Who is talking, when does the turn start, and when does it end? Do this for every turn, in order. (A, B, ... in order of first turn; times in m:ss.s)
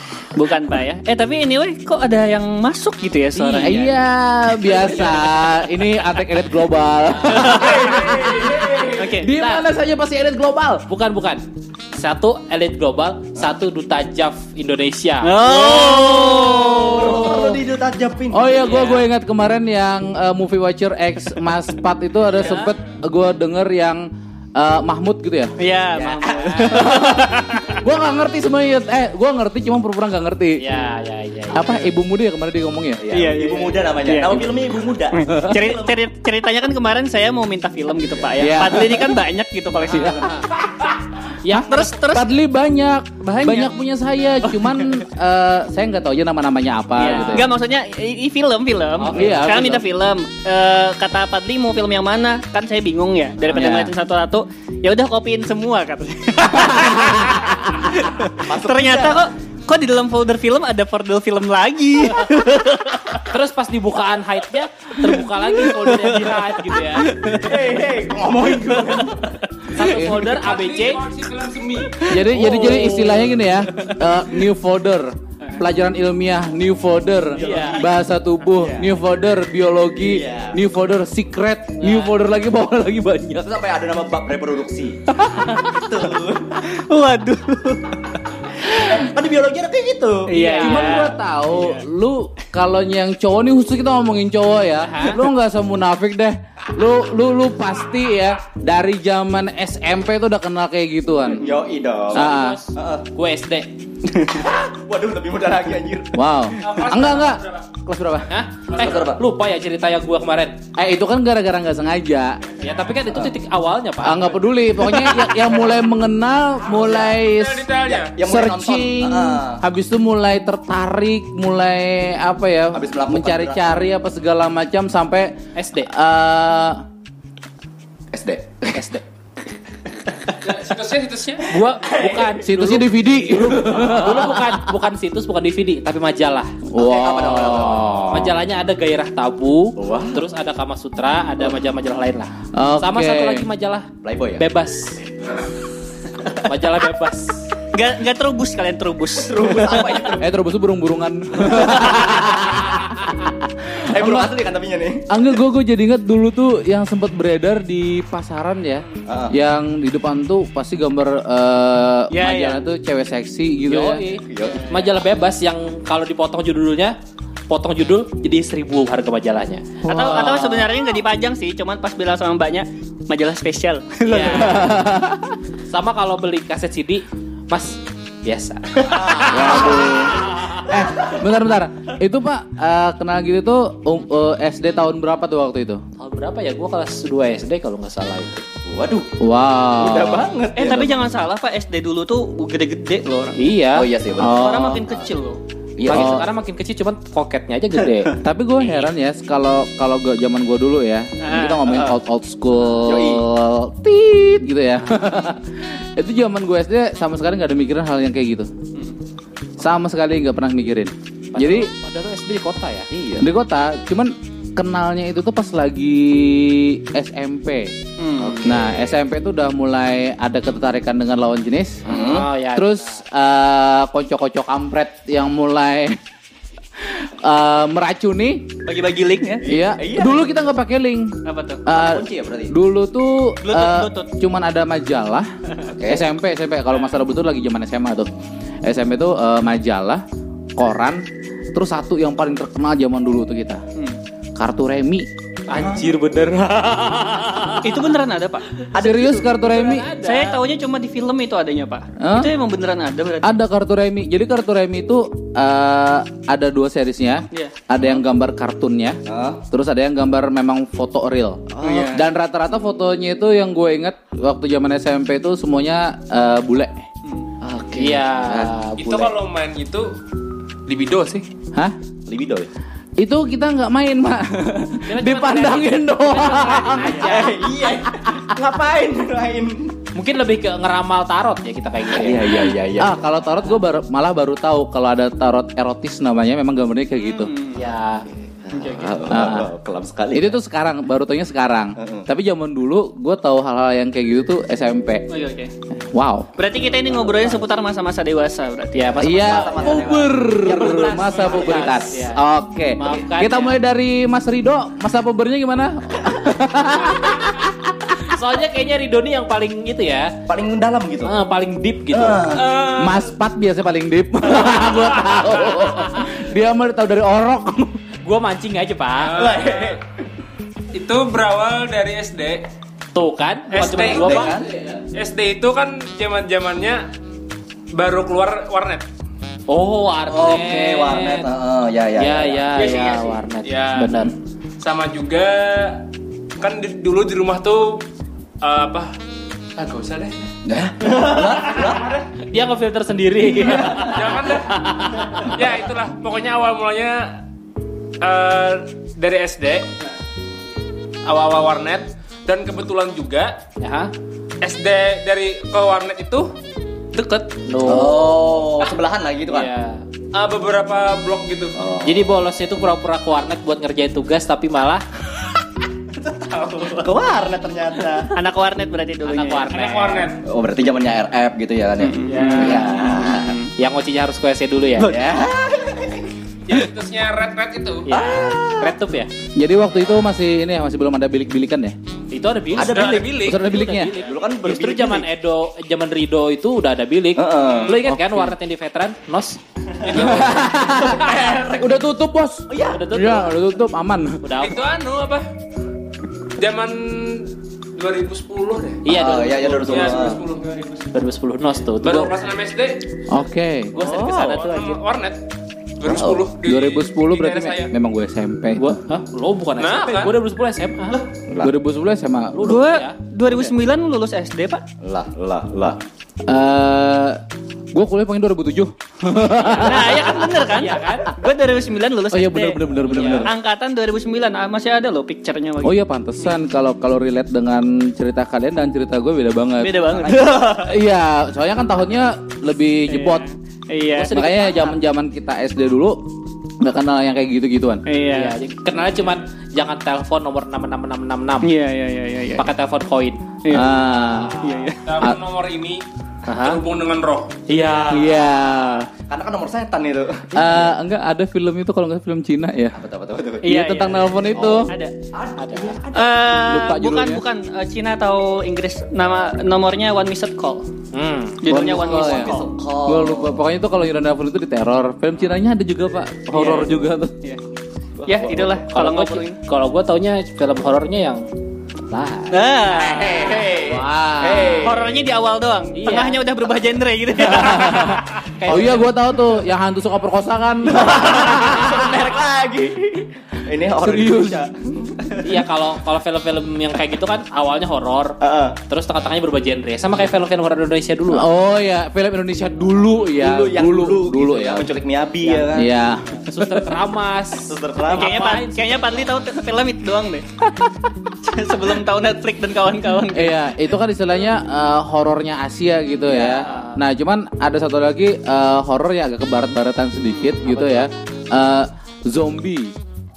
0:00.3-0:03.8 A
0:03.4-0:03.9 B
0:03.6-0:10.8 C
0:04.7-0:05.1 A
0:07.3-0:08.2 A
0:07.6-0:08.8 D
0:08.9-0:09.3 A
0:09.2-0:09.6 B
0:10.9-0:15.4 B
0:15.2-0:17.5 A
0:15.4-0:18.7 E
0:15.7-0:16.5 C
0:17.0-0:17.6 C
0:18.3-0:25.5 C
0:18.6-0:19.0 B
0:22.3-0:22.8 B
0:25.6-0:27.8 A
0:26.0-0:26.9 B
0:26.0-0:26.4 E
0:26.7-0:30.6 C
0:30.6-0:31.8 B
0:31.5-0:33.0 C
0:33.0-0:36.0 E
0:33.1-0:34.6 A
0:35.1-0:40.3 A
0:35.2-0:35.6 C
0:38.4-0:39.2 C
0:39.9-0:40.2 C
0:39.9-0:40.5 B
0:41.4-0:42.0 B
0:41.5-0:42.4 A
0:41.5-0:47.5 C
0:43.2-0:43.7 A
0:44.4-0:45.0 A
0:47.0-1:03.2 A
0:49.0-0:49.5 B
0:49.0-0:49.8 C
0:53.5-0:53.9 C
0:56.6-0:57.5 C
0:58.4-0:59.2 E
1:03.3-1:07.2 B
1:05.0-1:07.9 A
1:07.3-1:09.3 E
1:08.5-1:09.3 A
1:09.7-1:11.0 B
1:09.8-1:10.2 C
1:10.2-1:12.1 D
1:12.1-1:23.5 C
1:12.2-1:13.3 B
1:17.3-1:17.9 E
1:17.4-1:17.9 B
1:18.6-1:18.9 E
1:20.0-1:20.6 E
1:21.8-1:22.1 B
1:23.4-1:26.6 E
1:25.1-1:25.7 C
1:26.6-1:28.1 A
1:28.7-1:30.3 E
1:28.7-1:29.0 A
1:30.3-1:31.2 A
1:30.3-1:31.1 B
1:30.6-1:41.5 C
1:34.8-1:35.2 B
1:41.3-1:43.0 E
1:42.1-1:43.7 B
1:42.1-1:42.6 C
1:44.1-1:46.9 E
1:46.2-1:48.3 C
1:46.6-1:47.6 D
1:48.3-1:50.6 B
1:48.7-1:49.0 D
1:48.8-1:49.2 E
1:50.8-1:52.4 C
1:52.6-1:54.4 B
1:54.0-2:05.3 C
1:56.7-1:57.2 E
1:57.3-1:58.2 D
1:57.9-1:59.6 E
2:02.7-2:03.8 E
2:05.6-2:05.9 B
2:05.9-2:06.8 C
2:08.1-2:08.9 E
2:08.7-2:09.0 B
2:10.4-2:11.5 D
2:11.5-2:16.5 B
2:11.6-2:12.4 E
2:12.4-2:14.6 C
2:13.5-2:14.0 E
2:16.7-2:18.3 C
2:16.8-2:18.1 E
2:18.1-2:25.0 B
2:19.8-2:20.2 E
2:22.5-2:23.5 C
2:24.0-2:24.4 E
2:26.4-2:27.5 B
2:27.7-2:30.1 A
2:29.2-2:30.3 E
2:30.2-2:34.3 C
2:31.4-2:32.3 E
2:33.8-2:35.1 E
2:35.1-2:44.0 C
2:39.1-2:39.4 E
2:42.1-2:42.6 A
2:43.7-2:47.0 B
2:44.2-2:44.9 E
2:47.5-2:50.4 B
2:49.8-2:50.6 C
2:49.9-2:54.7 A
2:54.1-2:54.7 B
2:54.4-2:55.4 C
2:55.7-3:00.7 B
2:58.9-3:00.1 E
2:59.3-3:05.8 C
3:00.7-3:01.2 E
3:06.0-3:08.4 B
3:08.7-3:09.1 E
3:09.2-3:10.3 C
3:09.8-3:11.0 E
3:10.6-3:13.4 A
3:13.4-3:13.9 B
3:13.7-3:15.1 E
3:14.2-3:14.8 C
3:14.2-3:15.4 A
3:15.8-3:16.2 E
3:15.9-3:18.1 B
3:15.9-3:16.2 C
3:18.2-3:28.5 C
3:18.6-3:18.9 A
3:21.2-3:21.8 A
3:22.8-3:23.2 E
3:29.6-3:31.7 C
3:31.3-3:32.9 B
3:32.9-3:33.3 E
3:33.2-3:37.7 C
3:38.0-3:38.5 A
3:38.2-3:39.0 E
3:38.4-3:42.0 C
3:41.9-3:42.3 E
3:41.9-3:43.0 B
3:42.5-3:46.0 C
3:46.8-3:48.5 C
3:48.6-3:49.4 A
3:49.4-3:50.2 E
3:49.5-3:51.1 C
3:51.2-3:51.6 A
3:51.7-3:55.3 C
3:51.7-3:52.6 E
3:53.4-3:54.1 A
3:55.8-3:56.1 E
3:55.8-3:58.1 C
3:58.6-4:00.0 C
4:00.6-4:03.6 C
4:04.4-4:05.1 C
4:05.5-4:07.8 B
4:05.5-4:06.0 E
4:07.6-4:08.5 A
4:08.7-4:09.4 E
4:08.8-4:09.9 C
4:09.4-4:10.4 B
4:10.0-4:13.4 A
4:12.0-4:12.3 C
4:13.2-4:19.0 C
4:17.3-4:17.6 A
4:19.1-4:19.4 E
4:19.5-4:26.8 C
4:21.5-4:22.0 E
4:21.6-4:22.0 A
4:27.4-4:28.6 E
4:27.8-4:29.1 B
4:28.8-4:29.9 D
4:30.7-4:31.3 D
4:32.1-4:32.5 E
4:33.0-4:37.1 C
4:34.9-4:37.4 B
4:36.9-4:39.7 E
4:37.8-4:38.3 C
4:39.9-4:42.5 B
4:41.9-4:43.1 E
4:42.8-4:47.3 C
4:47.0-4:47.6 A
4:47.5-4:48.0 B
4:48.1-4:50.4 E
4:48.5-4:49.1 A
4:49.1-4:49.5 C
4:50.1-4:55.0 C
4:51.8-4:52.1 E
4:55.1-4:55.5 A
4:55.9-4:56.3 C
4:56.4-4:59.5 A
4:56.8-4:57.4 E
4:58.8-5:02.2 B
4:59.0-5:08.1 C
4:59.0-5:01.9 E
5:02.8-5:03.6 B
5:08.1-5:10.1 B
5:10.3-5:11.1 E
5:11.0-5:12.4 B
5:11.9-5:12.6 E
5:12.3-5:13.1 D
5:12.8-5:17.8 C
5:15.0-5:15.6 D
5:18.0-5:19.2 B
5:19.0-5:19.8 D
5:19.2-5:19.8 E
5:20.7-5:22.4 D
5:22.9-5:24.4 B
5:23.5-5:24.3 D
5:23.6-5:24.5 E
5:24.4-5:24.8 C
5:24.9-5:26.8 D
5:27.7-5:28.8 D
5:29.5-5:31.3 B
5:30.1-5:32.5 E
5:32.0-5:34.2 B
5:32.6-5:35.8 D
5:36.4-5:37.8 D
5:38.4-5:38.9 D
5:39.6-5:40.3 D
5:40.4-5:42.0 E
5:42.2-5:45.4 B
5:43.3-5:44.3 E
5:43.7-5:47.2 D
5:48.0-5:49.8 D
5:51.1-5:53.4 D
5:53.6-5:53.9 B
5:54.4-5:56.3 D
5:57.0-5:57.3 D
5:57.4-5:58.2 B
5:57.6-5:59.5 E
5:59.3-5:59.8 B
6:00.1-6:01.6 D
6:01.6-6:02.2 E
6:01.8-6:04.8 B
6:06.7-6:08.2 E
6:08.2-6:09.5 A
6:09.0-6:10.1 B
6:09.5-6:10.2 D
6:10.2-6:13.4 E
6:11.8-6:13.5 A
6:12.1-6:15.0 B
6:12.2-6:12.5 D
6:14.8-6:16.1 E
6:16.5-6:17.9 D
6:17.9-6:19.1 B
6:17.9-6:18.8 E
6:19.4-6:21.8 C
6:22.1-6:29.4 B
6:22.6-6:23.3 E
6:22.6-6:23.4 D
6:23.2-6:23.9 C
6:23.9-6:25.1 E
6:27.2-6:27.8 E
6:27.5-6:27.8 D
6:27.8-6:28.3 C
6:29.8-6:30.6 D
6:29.8-6:31.8 E
6:29.9-6:34.2 C
6:32.5-6:32.8 E
6:32.7-6:33.3 B
6:34.2-6:34.6 B
6:34.4-6:35.3 D
6:36.4-6:40.9 D
6:38.8-6:40.2 B
6:38.9-6:40.2 E
6:40.9-6:42.1 B
6:41.8-6:42.8 D
6:43.1-6:43.8 C
6:43.7-6:44.8 B
6:43.8-6:44.4 E
6:43.9-6:45.2 D
6:45.8-6:47.7 D
6:45.9-6:46.2 E
6:46.4-6:48.8 C
6:48.6-6:51.0 B
6:49.6-6:50.2 D
6:51.3-6:51.5 E
6:51.4-6:52.6 C
6:52.3-6:53.6 B
6:52.4-6:54.6 A
6:54.8-6:55.8 E
6:56.3-6:57.2 C
6:57.7-7:00.2 C
6:59.3-7:01.1 B
6:59.6-7:06.4 A
7:02.1-7:03.3 C
7:02.8-7:03.3 B
7:05.6-7:13.2 C
7:09.6-7:10.7 A
7:10.2-7:10.5 E
7:12.9-7:14.1 A
7:14.0-7:14.8 B
7:14.1-7:16.0 C
7:16.6-7:17.8 C
7:17.9-7:18.3 A
7:18.1-7:21.5 B
7:21.4-7:22.4 A
7:22.4-7:23.2 B
7:23.4-7:23.7 A
7:23.5-7:24.3 C
7:24.2-7:24.5 B
7:24.4-7:24.8 A
7:24.8-7:27.4 D
7:26.3-7:26.6 B
7:27.5-7:28.2 B
7:27.9-7:28.9 C
7:29.1-7:30.7 E
7:30.3-7:32.8 C
7:32.7-7:33.4 E
7:33.4-7:34.0 A
7:33.4-7:34.7 C
7:34.3-7:34.6 B
7:34.4-7:36.4 E
7:34.7-7:34.9 A
7:35.4-7:35.8 B
7:35.9-7:40.6 A
7:36.5-7:37.2 C
7:40.9-7:41.4 B
7:41.4-7:42.5 A
7:41.5-7:42.3 C
7:41.7-7:43.4 E
7:42.9-7:47.1 C
7:46.3-7:47.4 A
7:48.0-7:48.6 E
7:48.1-7:49.4 A
7:48.7-7:51.2 B
7:51.9-7:52.4 B
7:52.3-7:53.6 A
7:52.7-7:55.1 E
7:53.7-7:54.7 C
7:54.6-7:58.5 A
7:55.7-7:56.2 B
7:57.2-8:02.1 C
7:58.4-7:58.9 B
8:00.7-8:05.5 E
8:03.8-8:04.4 C
8:05.2-8:08.2 B
8:08.2-8:08.6 E
8:08.7-8:11.3 B
8:11.1-8:14.7 C
8:13.1-8:15.7 E
8:15.5-8:16.1 C
8:16.2-8:19.2 B
8:17.4-8:18.4 E
8:17.9-8:20.2 A
8:21.2-8:23.4 A
8:23.1-8:32.7 C
8:26.1-8:26.5 E
8:26.4-8:26.8 B
8:30.2-8:30.9 B